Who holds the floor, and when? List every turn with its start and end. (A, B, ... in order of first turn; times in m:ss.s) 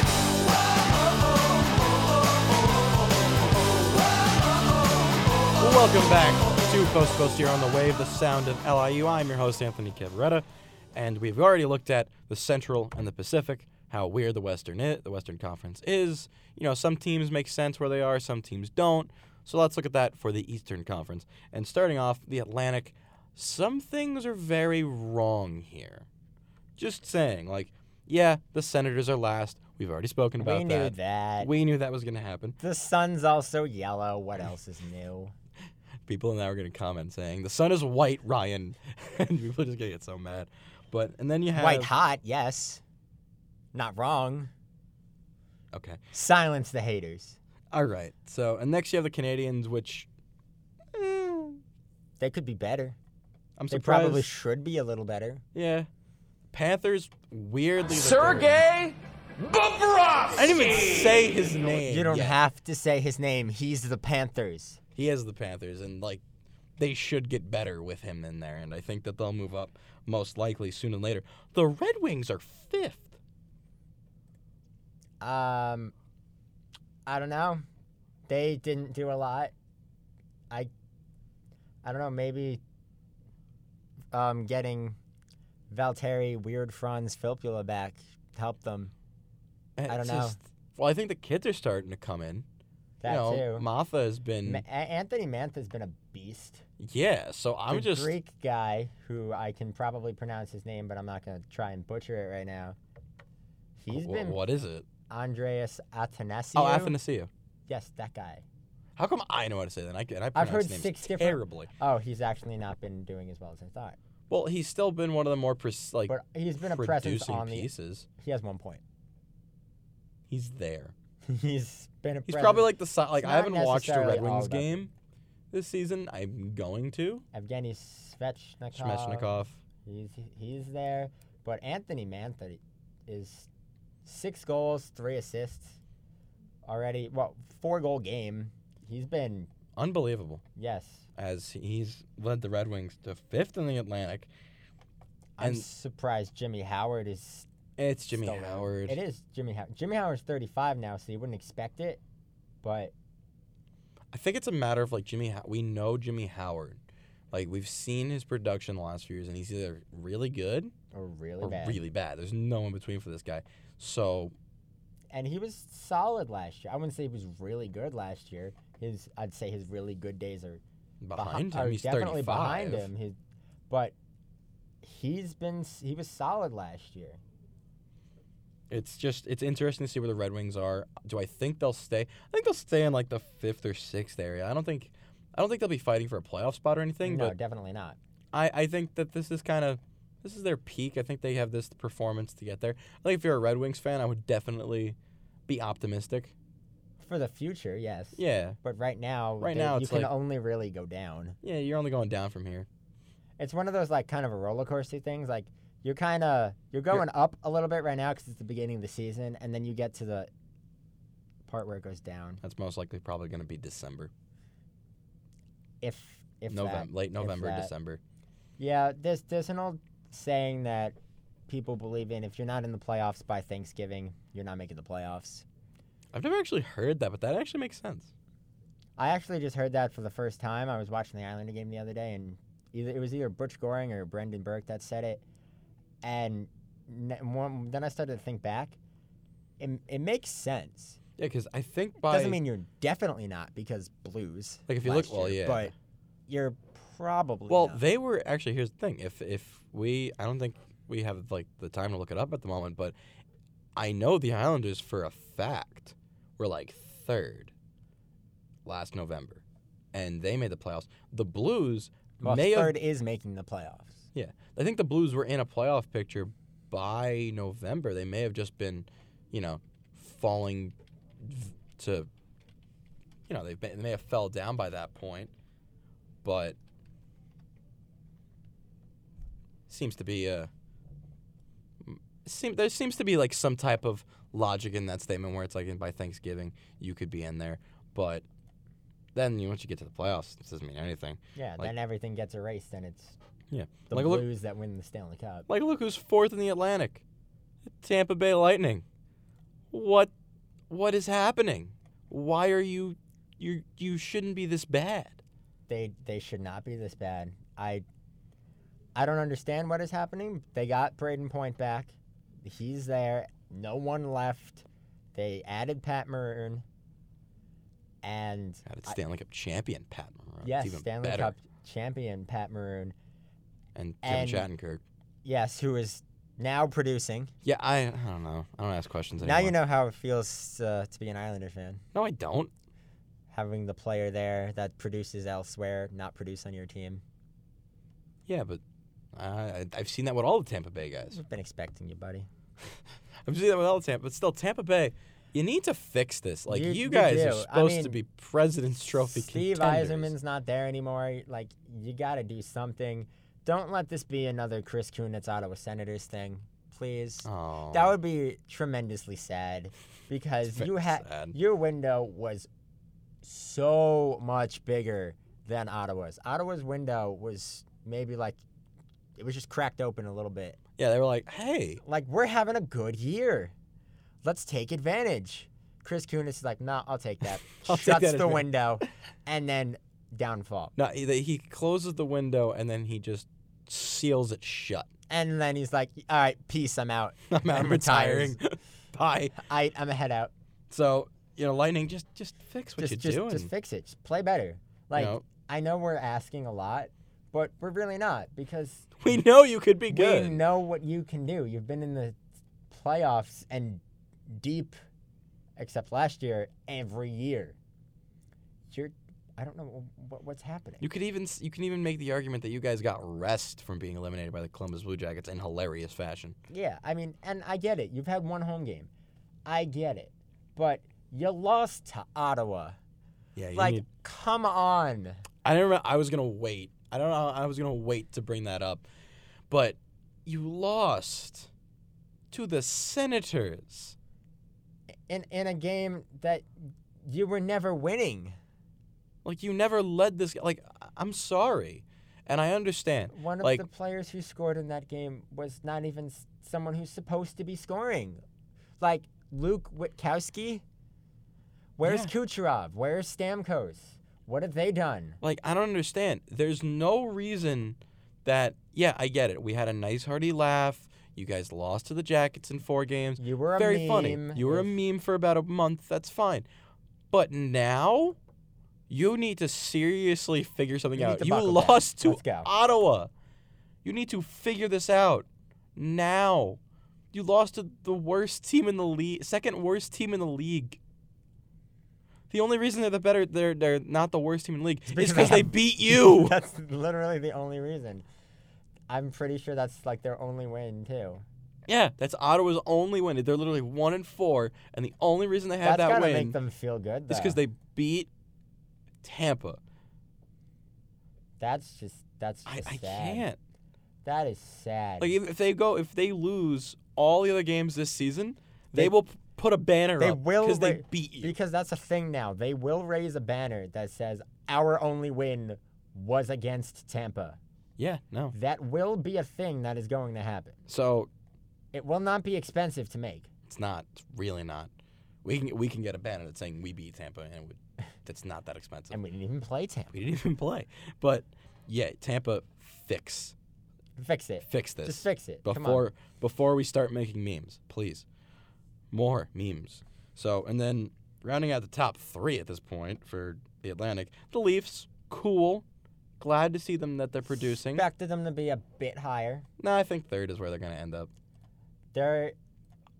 0:05.6-0:26.1 A
0:26.8-0:32.6 A
0:30.4-0:31.5 B
0:32.6-0:35.3 B
0:36.1-0:41.9 A
0:41.5-0:42.8 B
0:43.7-0:44.5 B
0:45.7-0:46.0 A
0:46.1-0:47.4 B
0:47.7-0:50.1 A
0:50.9-0:51.6 A
0:52.2-0:53.0 B
0:53.6-0:54.3 A
0:53.7-0:55.4 B
0:55.5-0:55.9 A
0:56.5-0:58.9 A
1:00.2-1:02.4 A
1:01.8-1:04.8 B
1:05.0-1:06.2 A
1:06.8-1:13.2 A
1:15.2-1:15.9 B
1:17.0-1:17.6 B
1:18.3-1:19.5 B
1:21.8-1:22.6 B
1:24.1-1:25.0 B
1:25.7-1:28.9 B
1:29.8-1:32.4 A
1:29.9-1:30.4 B
1:33.0-1:33.6 B
1:33.0-1:34.6 A
1:34.4-1:36.6 B
1:36.8-1:38.2 A
1:37.7-1:42.8 B
1:43.8-1:44.4 B
1:43.9-1:44.8 A
1:45.1-1:46.9 B
1:46.5-1:47.3 A
1:47.7-1:48.4 B
1:49.0-1:51.7 A
1:50.3-1:54.0 B
1:54.3-1:58.1 A
1:56.1-1:58.8 B
2:00.3-2:00.9 A
2:01.2-2:04.8 B
2:02.3-2:04.9 A
2:05.5-2:07.2 A
2:07.3-2:09.3 B
2:08.7-2:09.6 A
2:09.8-2:13.5 B
2:14.0-2:15.8 B
2:16.6-2:19.5 B
2:19.7-2:20.4 A
2:20.6-2:21.1 B
2:21.2-2:24.3 A
2:25.4-2:27.5 B
2:25.4-2:25.6 A
2:27.8-2:29.0 A
2:28.1-2:32.0 B
2:32.6-2:32.9 B
2:34.1-2:36.8 A
2:37.3-2:40.7 A
2:40.9-2:41.8 B
2:41.4-2:44.3 A
2:45.1-2:50.6 B
2:51.0-2:52.9 A
2:51.2-2:53.2 B
2:53.7-2:53.9 B
2:54.8-2:57.2 B
2:58.7-3:07.3 A
3:07.0-3:08.0 B
3:08.3-3:16.3 A
3:17.0-3:21.4 B
3:18.2-3:18.6 A
3:19.4-3:20.1 A
3:21.4-3:22.7 A
3:23.4-3:30.3 B
3:31.4-3:32.4 B
3:32.4-3:34.1 A
3:35.8-3:37.7 B
3:36.5-3:38.0 A
3:38.6-3:41.0 B
3:41.5-3:45.4 B
3:46.1-3:48.1 A
3:49.0-3:55.2 B
3:56.0-3:58.8 B
3:59.6-4:01.0 B
4:01.2-4:02.4 A
4:02.0-4:05.7 B
4:04.7-4:05.7 A
4:06.3-4:07.8 B
4:07.5-4:12.9 A
4:13.8-4:17.5 A
4:18.6-4:19.4 A
4:19.9-4:22.8 A
4:22.2-4:24.1 B
4:24.1-4:32.1 A
4:33.3-4:35.3 A
4:36.2-4:36.6 A
4:39.7-4:40.5 A
4:41.8-4:48.2 A
4:49.1-4:51.7 A
4:51.4-4:53.2 B
4:53.5-4:54.3 A
4:53.9-4:55.5 B
4:55.5-4:57.0 A
4:57.6-4:58.8 A
4:59.7-5:00.1 A
5:00.7-5:05.2 A
5:05.7-5:07.8 B
5:09.0-5:16.6 B
5:18.0-5:19.0 B
5:18.6-5:21.3 A
5:20.4-5:22.9 B
5:23.7-5:24.8 A
5:24.0-5:24.4 B
5:25.2-5:27.3 B
5:27.4-5:29.6 A
5:29.2-5:31.8 B
5:31.9-5:32.5 A
5:33.3-5:37.0 B
5:38.2-5:38.6 A
5:39.1-5:41.2 A
5:41.1-5:42.3 B
5:43.2-5:50.1 A
5:46.5-5:48.0 B
5:49.0-6:02.5 B
5:57.2-5:58.0 A
6:00.5-6:01.3 A
6:03.2-6:08.4 B
6:09.2-6:10.6 B
6:10.8-6:11.8 A
6:11.8-6:13.5 B
6:14.2-6:20.7 B
6:17.6-6:18.5 A
6:20.8-6:24.9 A
6:25.1-6:28.4 B
6:27.3-6:29.4 A
6:29.4-6:30.3 B
6:30.7-6:33.5 A
6:32.8-6:39.2 B
6:34.9-6:35.2 A
6:39.0-6:40.4 A
6:39.9-6:42.2 B
6:42.7-6:44.8 B
6:45.6-6:47.6 B
6:48.7-6:50.9 B
6:50.8-6:56.4 A
6:56.5-6:58.9 B
6:59.4-7:02.8 B
7:03.4-7:03.8 A
7:03.6-7:05.2 B
7:05.4-7:08.8 A
7:09.5-7:11.5 A
7:12.3-7:14.0 A
7:15.1-7:16.4 B
7:17.0-7:18.3 B
7:19.2-7:23.6 A
7:23.1-7:28.2 B
7:28.8-7:30.6 B
7:31.8-7:35.2 B
7:31.8-7:32.1 A
7:35.2-7:46.4 A
7:43.2-7:44.7 B
7:47.1-7:48.2 A
7:48.9-7:53.1 A
7:51.0-7:52.5 B
7:53.8-7:56.6 A
7:57.1-8:00.8 A
8:02.3-8:06.4 A
8:04.9-8:08.0 B
8:08.9-8:11.2 B
8:11.7-8:16.4 A
8:15.6-8:17.4 B
8:17.1-8:18.1 A
8:19.0-8:19.6 A
8:21.4-8:23.2 B
8:22.4-8:23.4 A
8:24.0-8:25.1 B
8:25.0-8:31.3 A
8:30.0-8:37.4 B
8:37.8-8:38.3 A
8:38.3-8:40.6 B
8:40.7-8:41.1 A
8:41.7-8:43.3 B
8:43.5-8:44.7 A
8:45.2-8:49.0 A
8:48.9-8:49.9 B
8:49.9-8:53.3 A
8:54.0-8:55.9 B
8:54.4-8:58.0 A
8:58.9-9:05.6 A
9:06.2-9:07.8 A
9:07.6-9:09.4 B
9:09.6-9:11.1 A
9:11.9-9:12.3 B